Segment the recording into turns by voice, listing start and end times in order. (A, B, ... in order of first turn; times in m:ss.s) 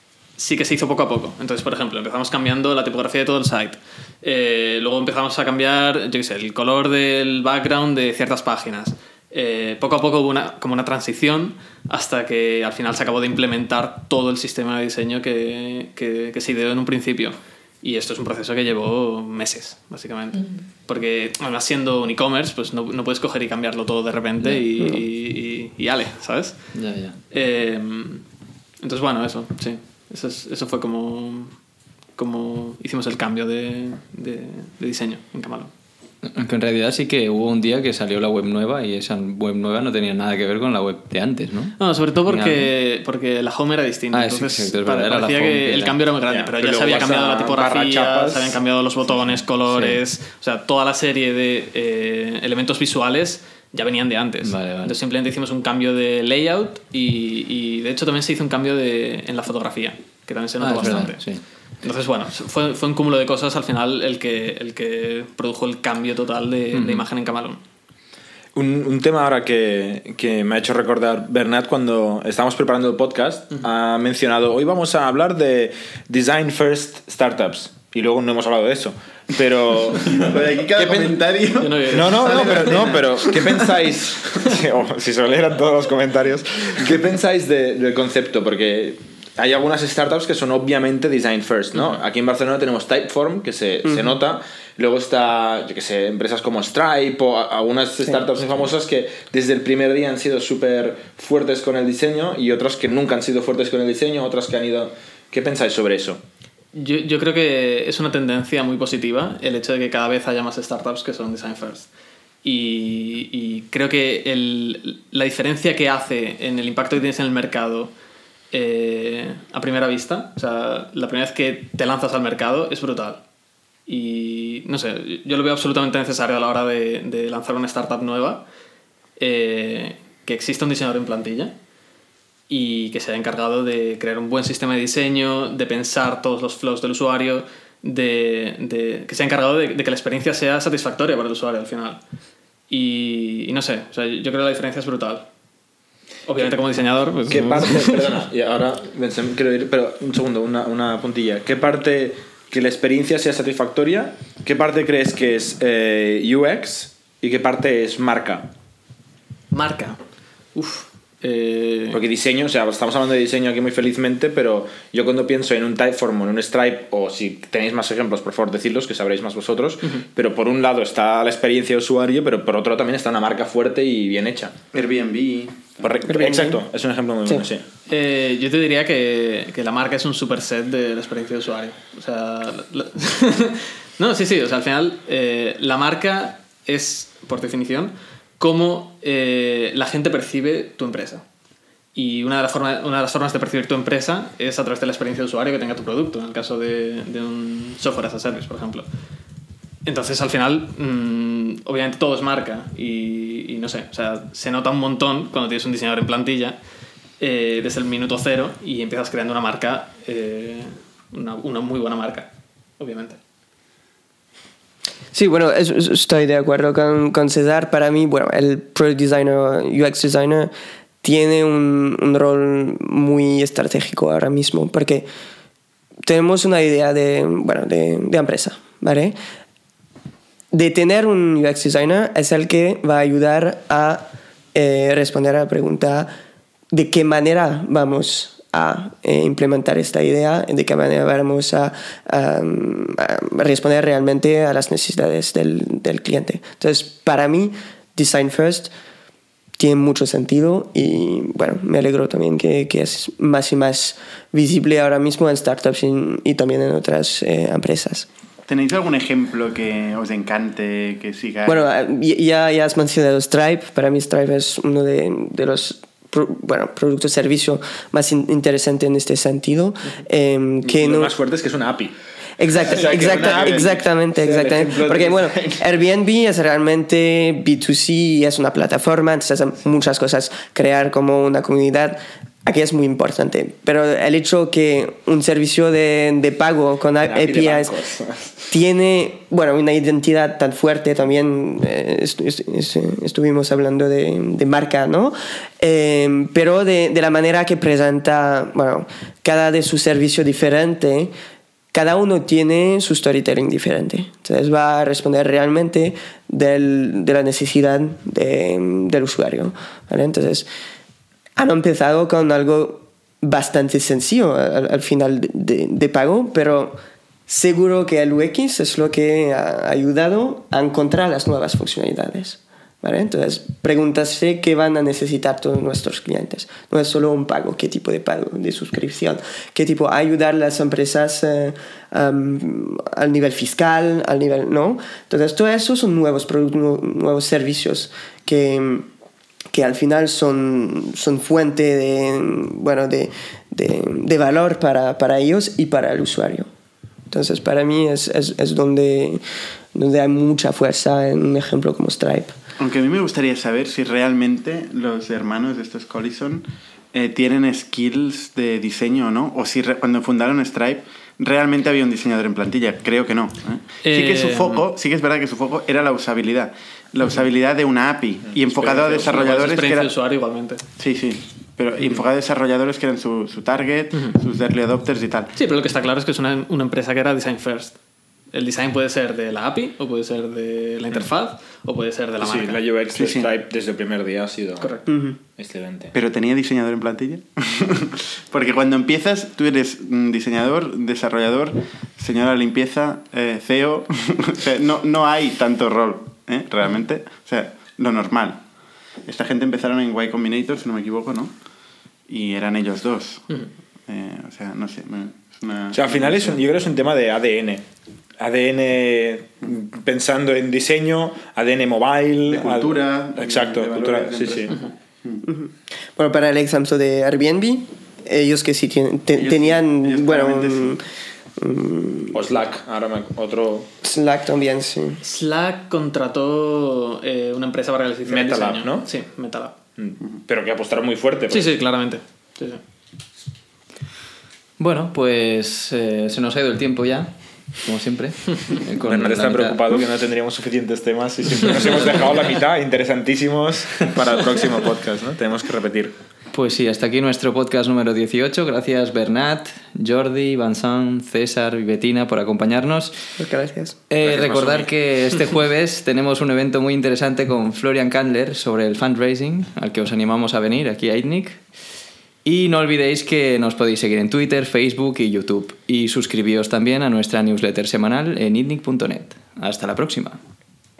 0:00.4-0:26.8 A
0:26.7-0:27.1 B
0:27.3-0:28.2 A
0:28.8-0:31.5 A
0:32.2-0:35.7 A
0:36.2-0:42.7 B
0:41.8-1:07.6 A
0:44.1-0:46.0 B
0:46.3-0:48.6 C
0:49.7-0:50.0 B
0:54.4-0:54.9 B
1:00.6-1:01.4 B
1:06.7-1:07.0 B
1:08.5-1:21.2 C
1:20.0-1:23.8 D
1:21.6-1:23.2 A
1:21.9-1:46.2 C
1:46.7-1:51.9 A
1:52.4-1:57.9 A
1:58.5-2:03.2 A
2:03.9-2:08.4 A
2:09.2-2:11.5 A
2:12.5-2:22.0 A
2:22.7-2:25.3 A
2:26.3-2:28.2 A
2:27.3-2:38.5 C
2:39.5-2:40.0 A
2:40.5-2:42.0 A
2:41.9-2:54.6 C
2:54.7-2:55.8 D
2:55.8-2:57.6 C
2:56.1-2:56.6 E
2:57.9-3:11.2 A
3:11.9-3:18.9 A
3:19.8-3:26.6 A
3:27.2-3:33.2 A
3:35.1-3:40.5 E
3:41.0-3:45.1 E
3:46.0-3:49.2 E
3:50.5-3:56.1 E
3:56.7-4:08.7 E
4:09.6-4:18.1 E
4:18.5-4:21.6 D
4:21.4-4:31.1 E
4:30.6-4:31.9 C
4:32.4-4:47.7 E
4:32.6-4:35.6 C
4:32.6-4:33.8 D
4:47.0-4:48.4 C
4:48.5-5:01.1 E
5:01.7-5:10.5 E
5:11.4-5:38.9 E
5:39.5-5:46.5 E
5:47.1-5:49.2 E
5:49.7-5:52.3 E
5:52.6-6:09.9 D
6:03.8-6:04.6 A
6:08.6-6:10.6 A
6:10.8-6:15.3 D
6:15.4-6:17.8 A
6:18.3-6:22.6 A
6:22.2-6:25.9 C
6:22.9-6:23.3 D
6:24.6-6:24.8 A
6:24.9-6:25.2 E
6:25.9-6:38.4 D
6:39.0-6:41.4 D
6:42.1-6:46.4 D
6:45.7-6:47.6 C
6:48.2-6:54.6 C
6:52.3-6:55.2 D
6:55.2-7:00.8 E
6:59.1-7:00.8 D
7:01.4-7:02.2 E
7:02.1-7:03.7 C
7:03.8-7:05.0 E
7:05.0-7:09.5 A
7:08.0-7:08.9 C
7:09.8-7:11.5 C
7:11.3-7:12.6 A
7:14.6-7:19.7 B
7:18.8-7:25.9 C
7:26.3-7:32.9 B
7:33.2-7:33.8 E
7:33.9-7:41.5 B
7:34.0-7:34.7 C
7:42.2-7:50.2 B